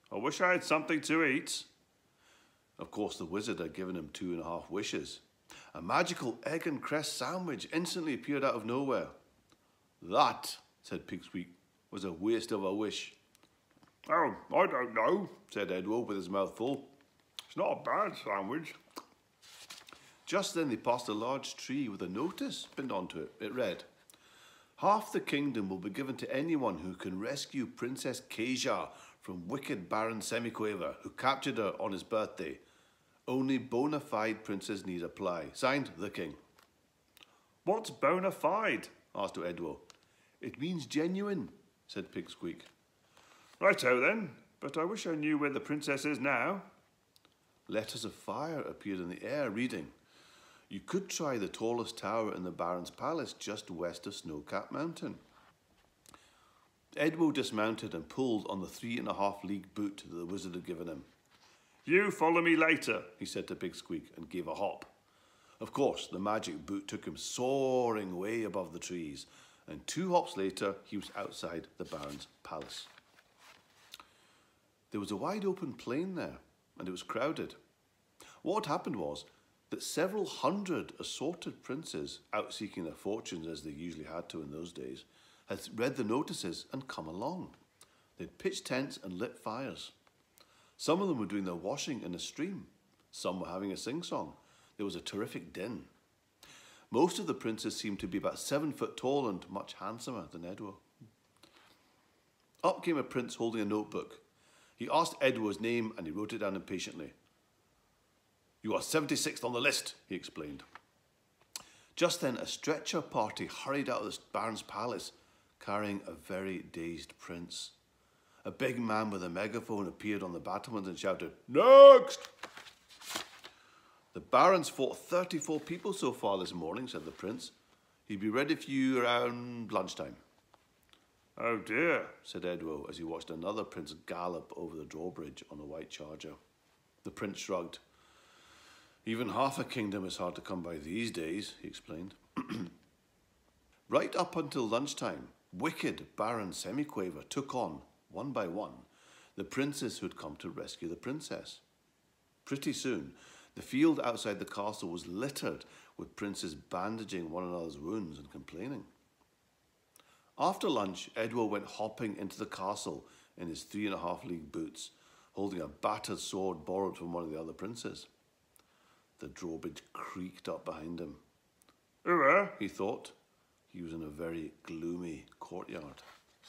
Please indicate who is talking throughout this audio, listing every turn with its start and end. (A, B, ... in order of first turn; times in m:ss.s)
0:00.1-0:01.7 A
0:02.8-0:05.2 B
0:05.7-0:09.2 B
0:10.0-0:13.2 B
0:14.1-0:15.3 A
0:15.3-0:16.9 B
0:17.5-0:18.8 A
0:20.3-0:23.9 B
0:24.8-0:32.6 B
0:33.3-0:36.4 B
0:37.7-0:38.9 A
0:39.1-0:39.8 B
0:40.4-0:42.7 B
0:43.6-0:46.7 A
0:47.7-0:49.9 B
0:50.7-0:55.2 B
0:57.0-1:01.1 B
1:01.9-1:03.1 A
1:03.1-1:04.9 B
1:05.6-1:12.9 B
1:14.9-1:17.6 B
1:18.4-1:27.6 B
1:28.2-1:29.9 B
1:30.8-1:35.9 B
1:36.9-1:40.8 B
1:42.6-1:44.2 B
1:44.8-1:47.1 B
1:48.6-1:50.6 B
1:52.0-1:57.8 B
1:58.4-2:02.3 B
2:04.1-2:07.5 B
2:08.1-2:10.2 B
2:11.4-2:12.1 A
2:12.1-2:16.4 B
2:17.0-2:17.8 B
2:19.0-2:22.7 B
2:23.9-2:31.6 B
2:32.4-2:38.9 B
2:40.4-2:48.1 B
2:49.2-2:51.2 B
2:52.0-2:52.6 A
2:52.6-2:53.2 B
2:53.7-2:56.1 B